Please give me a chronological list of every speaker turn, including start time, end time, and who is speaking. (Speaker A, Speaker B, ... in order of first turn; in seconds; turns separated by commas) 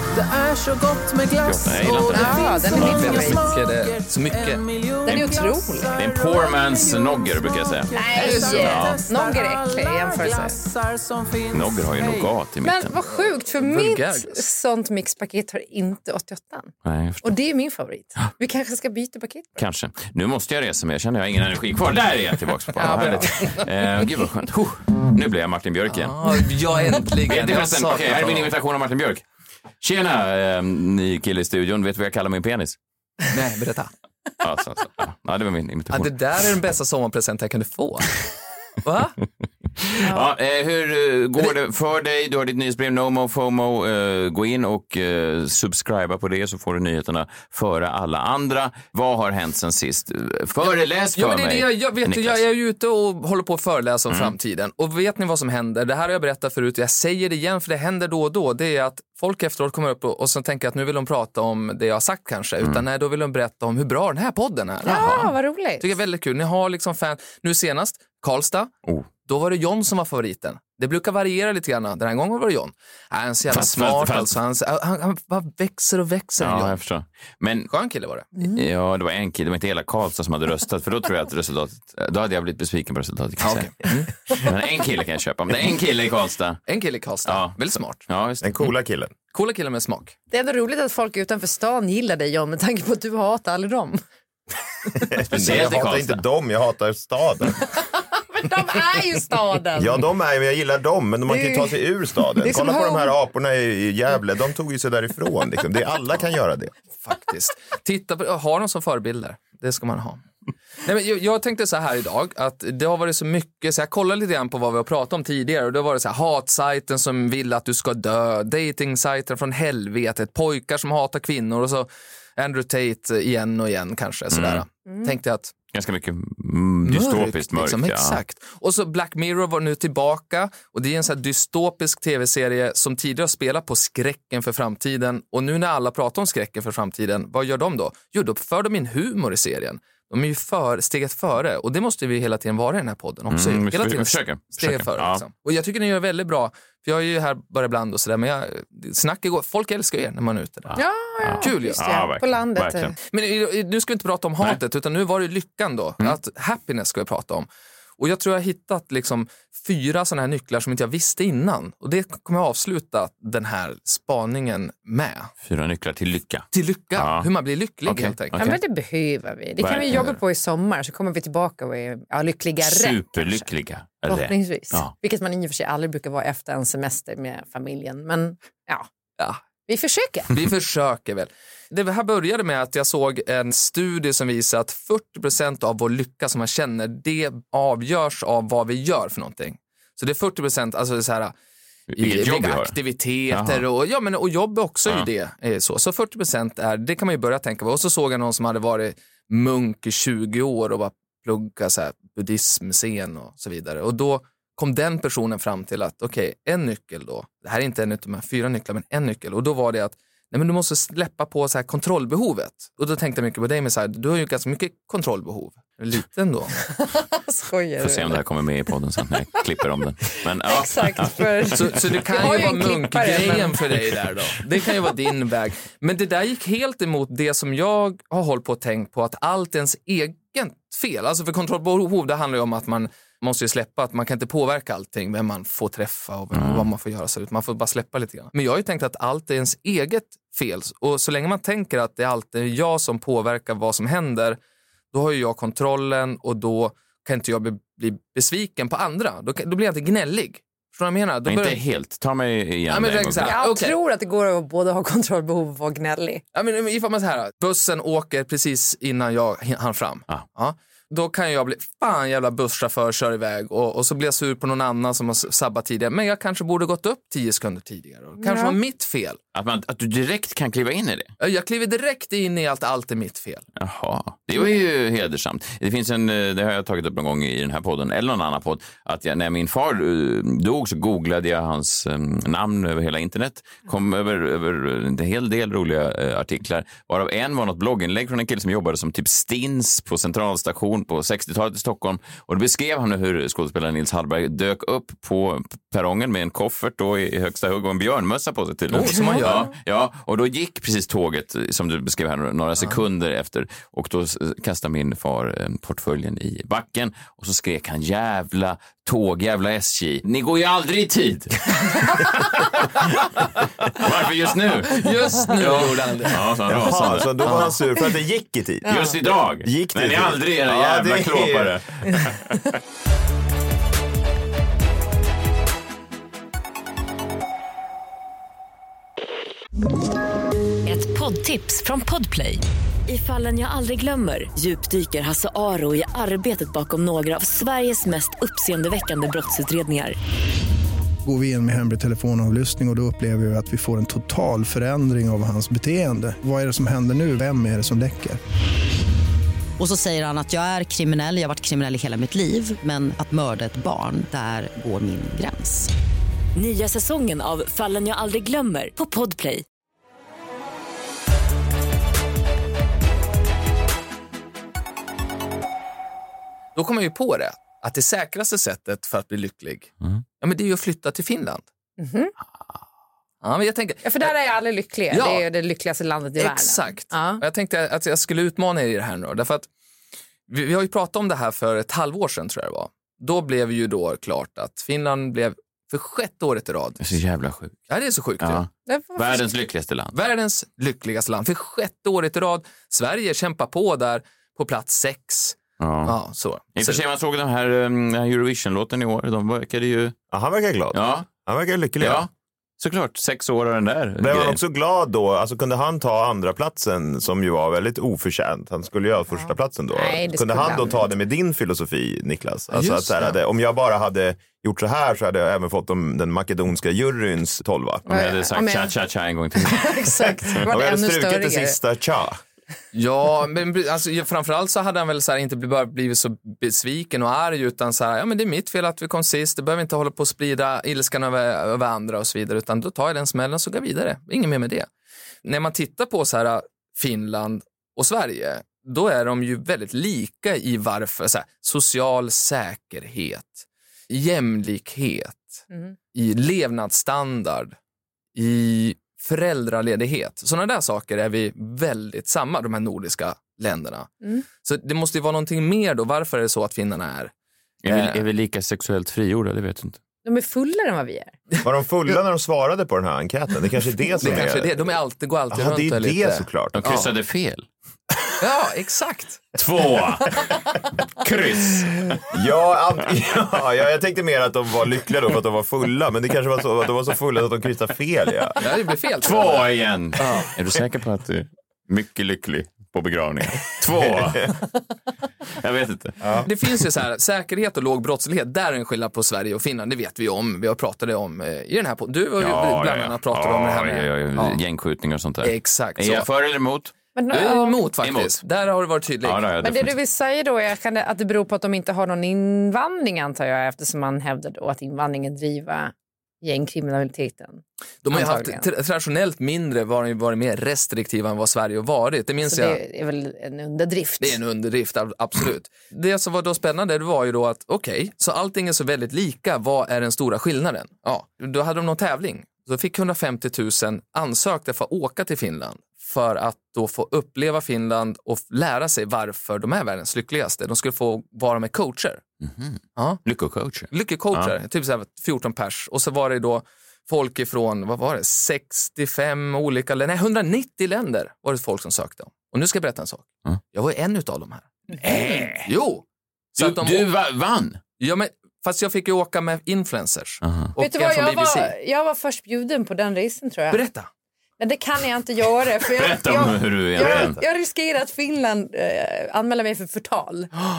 Speaker A: 0.1-12.3, Speaker B: 1.4-3.2, Speaker C: 2.1-3.4, Speaker D: 2.7-4.6, Speaker C: 5.0-5.9, Speaker B: 6.0-7.9, Speaker C: 7.9-10.6, Speaker D: 8.2-8.5, Speaker B: 8.5-9.0, Speaker B: 11.5-13.0, Speaker C: 12.6-19.6, Speaker D: 13.1-14.4, Speaker B: 16.8-17.3, Speaker B: 19.6-26.1, Speaker D: 22.7-23.6, Speaker C: 22.8-23.2, Speaker D: 25.9-28.5, Speaker B: 27.3-29.2, Speaker B: 29.8-32.8, Speaker D: 33.3-33.9, Speaker B: 34.4-36.1, Speaker D: 35.9-38.2, Speaker D: 38.8-39.2, Speaker B: 39.9-52.4, Speaker D: 51.1-68.7, Speaker B: 54.1-54.3, Speaker C: 64.8-65.8, Speaker D: 69.2-76.8, Speaker B: 73.5-74.3, Speaker B: 76.4-77.7, Speaker D: 77.7-78.4, Speaker B: 78.4-86.6, Speaker D: 83.4-84.1, Speaker D: 86.7-88.0, Speaker B: 87.2-88.7, Speaker E: 88.4-89.1, Speaker D: 89.3-90.1, Speaker C: 90.3-94.0, Speaker E: 95.0-97.7, Speaker B: 95.3-96.2, Speaker C: 98.3-100.0, Speaker E: 99.8-106.7, Speaker C: 101.3-101.8, Speaker C: 102.4-103.1, Speaker D: 107.0-110.2, Speaker D: 110.8-125.5, Speaker B: 124.3-124.6, Speaker B: 125.7-128.2, Speaker D: 126.8-150.8, Speaker B: 143.3-145.2, Speaker B: 150.7-152.9, Speaker C: 150.7-152.9, Speaker D: 151.4-151.8, Speaker D: 153.0-165.3, Speaker B: 165.4-167.3, Speaker D: 166.5-168.5, Speaker B: 167.8-168.6, Speaker C: 168.3-173.5, Speaker B: 169.6-170.1, Speaker B: 172.6-174.9, Speaker C: 174.1-178.9, Speaker C: 179.7-180.3, Speaker D: 180.3-191.3, Speaker B: 191.9-192.8, Speaker D: 192.0-216.6, Speaker B: 193.3-193.6, Speaker C: 216.7-218.2, Speaker B: 217.8-222.0, Speaker C: 220.4-223.6, Speaker D: 221.6-244.4, Speaker B: 236.3-236.7, Speaker D: 244.9-251.6, Speaker B: 251.2-253.4, Speaker D: 252.7-253.7, Speaker C: 253.2-256.2, Speaker D: 256.3-269.2, Speaker C: 268.2-268.6, Speaker B: 269.3-271.1, Speaker D: 271.2-273.4, Speaker B: 273.6-311.5, Speaker D: 298.7-299.5, Speaker B: 313.7-317.4, Speaker D: 314.7-316.2, Speaker E: 316.5-321.6, Speaker D: 317.2-317.5, Speaker C: 318.7-318.9, Speaker B: 318.7-322.5, Speaker F: 330.6-339.9, Speaker G: 341.0-348.2, Speaker H: 349.6-355.7, Speaker F: 356.3-359.4, Speaker D: 366.5-371.4, Speaker C: 371.8-372.1, Speaker D: 373.2-374.1, Speaker C: 373.8-377.2, Speaker D: 374.9-375.2, Speaker D: 376.2-379.5, Speaker D: 380.3-386.8, Speaker B: 386.8-387.6, Speaker D: 387.7-388.4, Speaker B: 388.2-389.9, Speaker C: 388.7-389.2, Speaker D: 389.9-396.8, Speaker B: 395.6-396.0, Speaker B: 396.6-399.9, Speaker E: 400.1-402.1, Speaker B: 400.7-401.1, Speaker B: 401.8-404.4, Speaker E: 404.0-417.9, Speaker C: 409.1-410.9, Speaker D: 412.5-413.1, Speaker C: 417.9-418.7, Speaker B: 417.9-420.4, Speaker C: 419.4-421.6, Speaker E: 420.4-422.2, Speaker D: 422.7-434.7, Speaker D: 435.2-447.6, Speaker D: 448.1-457.1, Speaker B: 457.6-459.8, Speaker D: 457.7-458.0, Speaker C: 460.0-461.1, Speaker E: 461.4-464.8, Speaker D: 464.0-466.9, Speaker E: 465.3-466.8, Speaker B: 466.5-467.5, Speaker D: 468.2-469.2, Speaker B: 469.3-470.4, Speaker B: 470.9-472.0, Speaker E: 472.1-478.4, Speaker D: 478.4-480.3, Speaker B: 479.0-484.4, Speaker B: 485.4-486.0, Speaker E: 486.0-486.3, Speaker D: 486.2-494.4, Speaker B: 492.2-496.7, Speaker D: 495.2-496.1, Speaker C: 496.9-497.6, Speaker D: 497.1-499.2, Speaker B: 497.8-498.1, Speaker B: 499.0-499.7, Speaker C: 499.4-508.4, Speaker D: 507.8-512.6, Speaker C: 512.2-514.2, Speaker D: 514.0-532.0, Speaker B: 532.2-534.3, Speaker D: 532.8-533.0, Speaker D: 533.7-545.8, Speaker C: 544.8-545.1, Speaker D: 546.3-546.9, Speaker B: 546.4-547.6, Speaker D: 547.8-551.5, Speaker C: 550.6-553.6, Speaker D: 553.5-553.9, Speaker C: 554.4-560.3, Speaker B: 555.7-557.2